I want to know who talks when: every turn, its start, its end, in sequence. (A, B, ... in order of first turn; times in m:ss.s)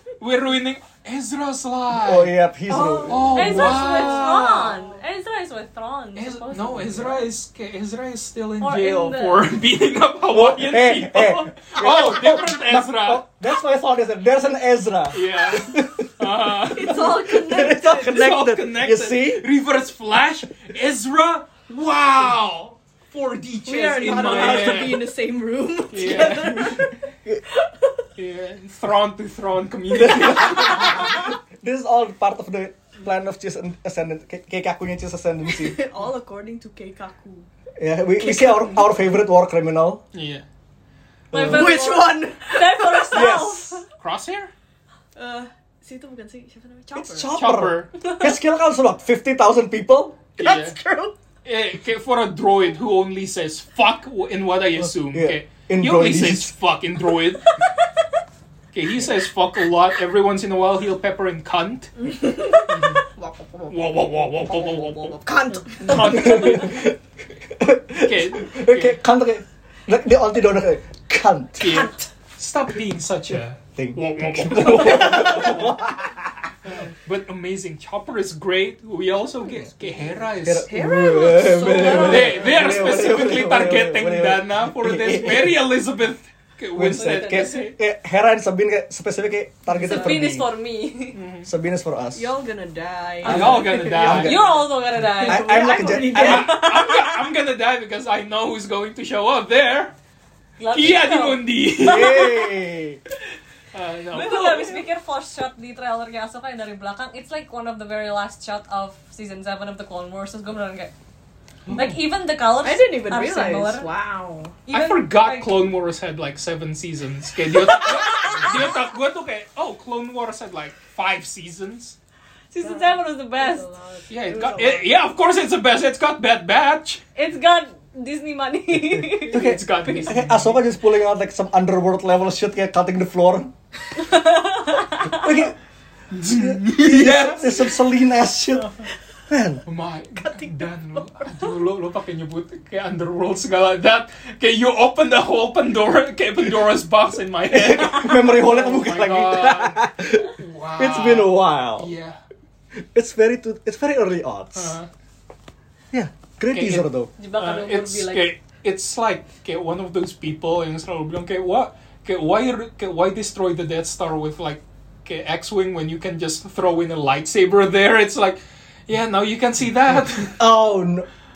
0:00.2-0:02.4 A
0:01.9-0:03.9 B
0:02.7-0:04.9 C
0:02.9-0:07.2 D
0:03.1-0:04.8 A
0:06.2-0:13.2 A
0:08.6-0:09.5 D
0:10.3-0:16.1 B
0:15.1-0:17.2 A
0:16.7-0:19.5 B
0:16.7-0:18.2 C
0:17.9-0:25.1 A
0:23.7-0:26.9 C
0:24.1-0:24.9 B
0:25.9-0:26.7 A
0:26.4-0:27.4 B
0:27.5-0:27.9 C
0:28.2-0:31.2 A
0:29.9-0:35.8 B
0:35.5-0:37.5 C
0:37.8-0:40.0 B
0:38.2-0:38.8 C
0:40.1-0:40.4 A
0:41.3-0:41.9 B
0:41.3-0:43.8 D
0:41.5-0:43.5 C
0:43.1-0:43.8 B
0:44.0-0:44.5 A
0:45.2-0:47.4 C
0:47.0-0:50.3 B
0:47.3-0:47.9 A
0:50.4-0:51.2 C
0:50.4-0:50.8 A
0:51.4-0:57.4 A
0:55.0-0:56.5 B
0:58.7-1:02.1 A
1:02.0-1:06.6 C
1:02.7-1:03.0 A
1:03.7-1:05.2 A
1:05.8-1:06.8 A
1:05.9-1:07.0 B
1:07.5-1:11.9 B
1:08.0-1:09.0 A
1:11.6-1:15.8 A
1:13.8-1:16.5 B
1:16.6-1:20.7 A
1:20.4-1:25.6 B
1:20.7-1:22.7 C
1:21.6-1:22.4 D
1:21.8-1:27.8 A
1:26.8-1:30.5 B
1:27.0-1:27.6 D
1:29.7-1:31.2 D
1:31.2-1:31.5 A
1:31.4-1:32.3 B
1:32.2-1:34.2 C
1:33.2-1:34.4 A
1:33.2-1:34.5 B
1:33.2-1:37.1 D
1:35.1-1:36.9 C
1:35.2-1:36.7 B
1:36.1-1:39.9 A
1:40.6-1:42.3 D
1:40.7-1:42.4 A
1:41.8-1:43.0 B
1:43.7-1:44.5 A
1:44.1-1:50.9 D
1:44.1-1:44.8 C
1:51.7-1:51.9 A
1:51.8-1:53.9 D
1:52.6-1:54.7 C
1:54.7-1:55.5 D
1:54.7-2:02.0 A
1:57.7-1:58.8 D
2:02.5-2:03.7 D
2:02.6-2:04.9 C
2:04.1-2:07.0 A
2:07.2-2:09.6 D
2:08.9-2:13.5 B
2:09.3-2:10.6 A
2:14.1-2:15.2 D
2:15.0-2:15.6 B
2:16.1-2:17.8 A
2:16.2-2:18.7 B
2:19.3-2:19.6 B
2:19.7-2:32.2 A
2:20.2-2:21.0 C
2:27.5-2:31.9 B
2:32.8-2:34.8 B
2:34.6-2:34.9 A
2:35.9-2:37.1 B
2:36.5-2:50.4 A
2:37.2-2:38.3 D
2:50.4-2:51.1 B